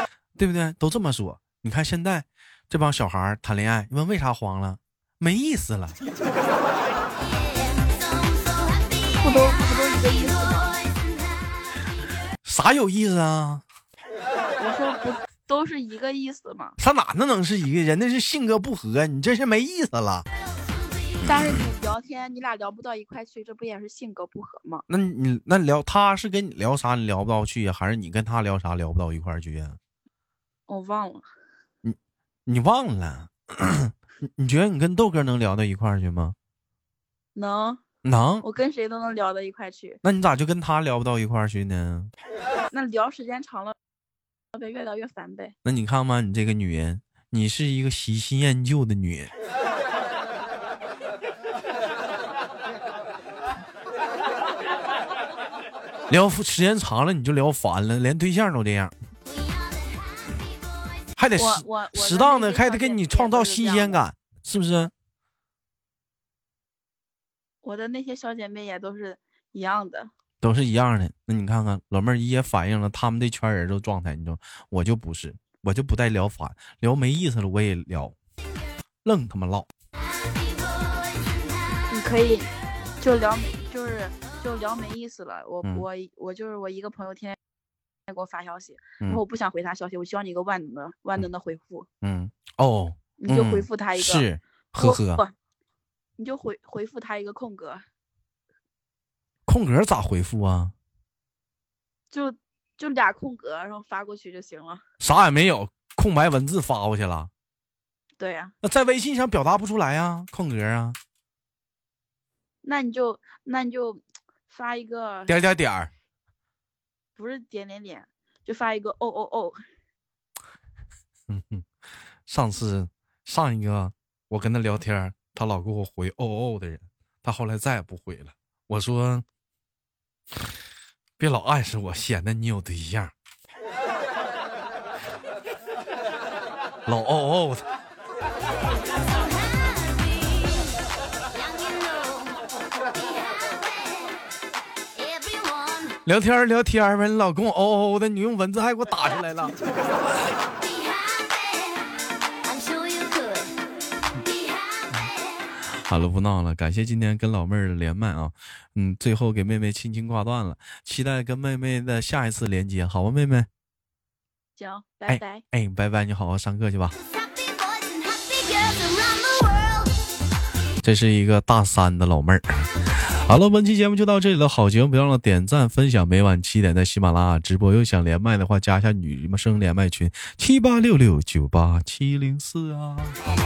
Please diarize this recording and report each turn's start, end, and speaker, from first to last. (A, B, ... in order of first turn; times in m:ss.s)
0:00.4-0:06.0 A
0:09.2-0:10.8 B
0:12.4-0:13.6 A
0:14.6-0:16.8 B
0:16.8-0:20.2 A
0:21.2-0:21.5 A
0:21.2-0:24.8 B
0:24.9-0:29.8 A
0:30.7-0:31.3 B
0:31.8-0:36.4 A
0:37.3-0:37.8 B
0:38.0-0:38.4 A
0:38.4-0:40.0 B
0:40.0-0:42.1 A
0:42.7-0:43.8 B
0:44.5-0:45.5 B
0:45.6-0:49.3 A
0:56.1-0:58.9 A
1:01.2-1:04.9 A
1:01.4-1:04.0 B
1:07.6-1:10.1 B
1:10.4-1:18.1 A
1:19.0-1:19.7 A
1:21.9-1:27.4 B
1:28.1-1:31.9 B
1:32.0-1:35.2 A
1:33.2-1:34.2 B
1:34.8-1:35.3 B
1:36.2-1:37.8 B
1:39.4-1:40.7 A
1:42.1-1:44.8 B
1:45.0-1:47.3 A
1:48.2-1:48.5 B
1:48.6-1:51.0 A
1:52.6-1:55.3 B
1:55.3-1:55.9 A
1:57.2-1:59.6 B
2:01.3-2:01.7 A
2:02.2-2:09.2 A
2:11.2-2:13.1 A
2:16.8-2:17.6 A
2:26.0-2:29.5 A
2:35.7-2:43.5 A
2:44.6-2:45.4 B
2:45.1-2:46.9 A
2:50.8-3:03.2 A